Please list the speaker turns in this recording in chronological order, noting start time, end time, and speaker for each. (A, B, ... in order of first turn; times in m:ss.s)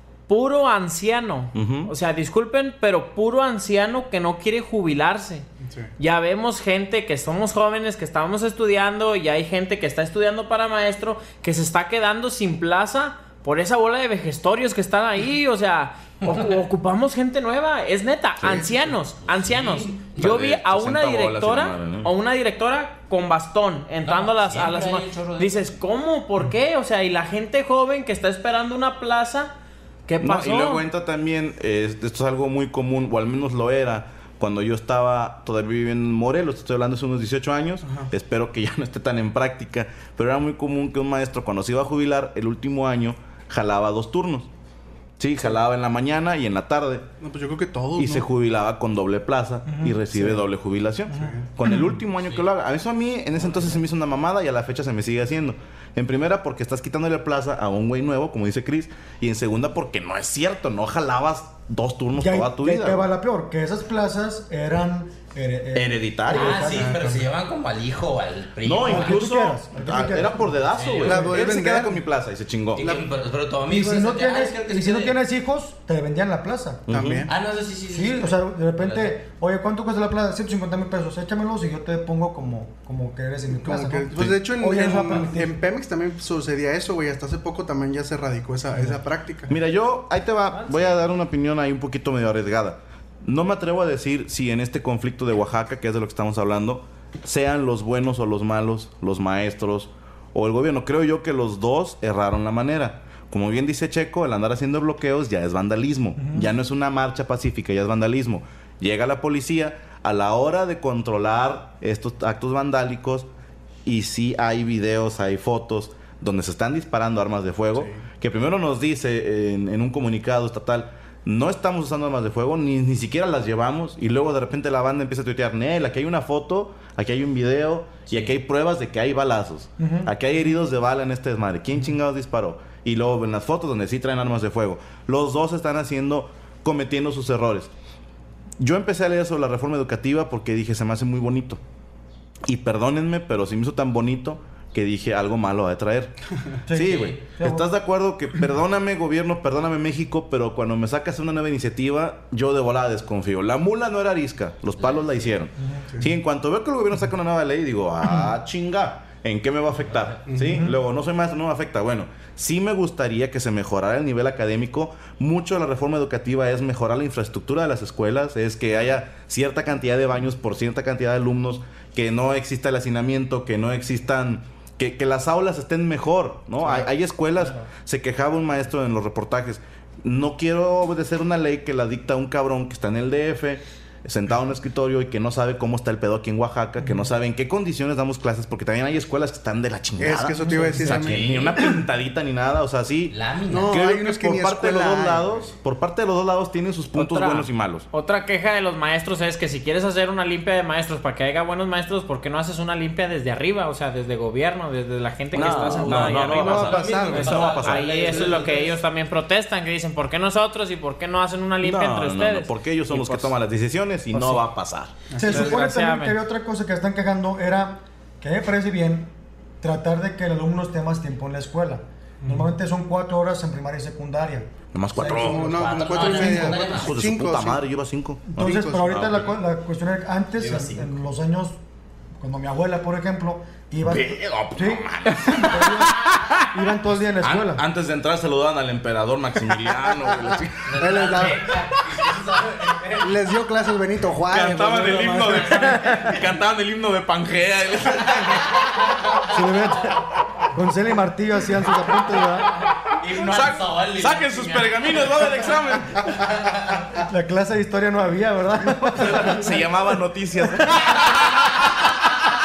0:00.3-0:05.4 A
0:01.5-0:01.9 B
0:05.6-0:05.9 C
0:06.0-0:29.5 A
0:18.4-0:18.9 C
0:19.2-0:20.2 D
0:20.2-0:22.1 B
0:24.0-0:25.7 D
0:30.1-0:30.8 A
0:30.2-0:44.5 B
0:37.8-0:38.1 C
0:45.2-0:47.1 B
0:47.2-0:48.3 C
0:48.0-1:03.0 B
0:49.7-0:50.4 E
0:51.1-0:52.0 E
0:51.1-0:51.5 C
1:02.1-1:07.2 E
1:05.7-1:06.6 B
1:06.3-1:09.2 D
1:06.6-1:07.2 C
1:08.6-1:12.8 B
1:08.8-1:11.4 E
1:10.7-1:11.3 D
1:11.0-1:12.0 C
1:12.7-1:15.2 D
1:13.6-1:16.9 E
1:16.9-1:17.3 B
1:16.9-1:17.3 C
1:17.2-1:19.2 D
1:17.9-1:25.5 E
1:23.6-1:29.6 C
1:29.5-1:53.3 B
1:30.6-1:31.0 E
1:46.2-1:46.6 E
1:53.8-2:17.7 B
1:57.7-1:58.1 C
2:09.8-2:10.1 E
2:18.6-2:21.6 B
2:22.4-2:26.2 B
2:26.7-2:27.7 E
2:26.7-3:17.8 B
2:26.9-2:27.3 D
2:34.8-2:35.4 D
2:38.0-2:38.3 E
2:39.9-2:40.2 D
2:40.3-2:40.7 C
3:10.0-3:11.4 C
3:10.7-3:11.7 D
3:13.1-3:13.8 D
3:13.5-3:15.3 C
3:16.9-3:33.3 A
3:25.3-3:28.3 B
3:25.3-3:26.1 E
3:25.8-3:27.3 C
3:26.0-3:28.8 D
3:31.6-3:34.9 B
3:34.1-3:34.4 E
3:35.1-3:35.6 C
3:35.1-3:45.4 E
3:35.2-3:36.2 A
3:44.7-3:45.5 B
3:45.1-3:47.6 C
3:45.2-3:47.1 D
3:46.1-3:49.3 B
3:48.3-3:51.6 E
3:48.4-3:48.9 C
3:50.4-3:51.0 D
3:52.2-3:57.6 E
3:53.8-3:55.6 B
3:57.2-4:00.7 B
3:59.7-4:01.8 C
4:00.7-4:03.2 D
4:03.0-4:05.7 C
4:04.3-4:08.5 B
4:05.2-4:05.6 D
4:05.4-4:06.2 E
4:08.1-4:09.3 D
4:09.3-4:10.0 E
4:10.5-4:12.5 E
4:11.8-4:15.6 D
4:13.1-4:16.1 B
4:16.1-4:16.8 D
4:17.0-4:19.7 E
4:19.0-4:21.5 B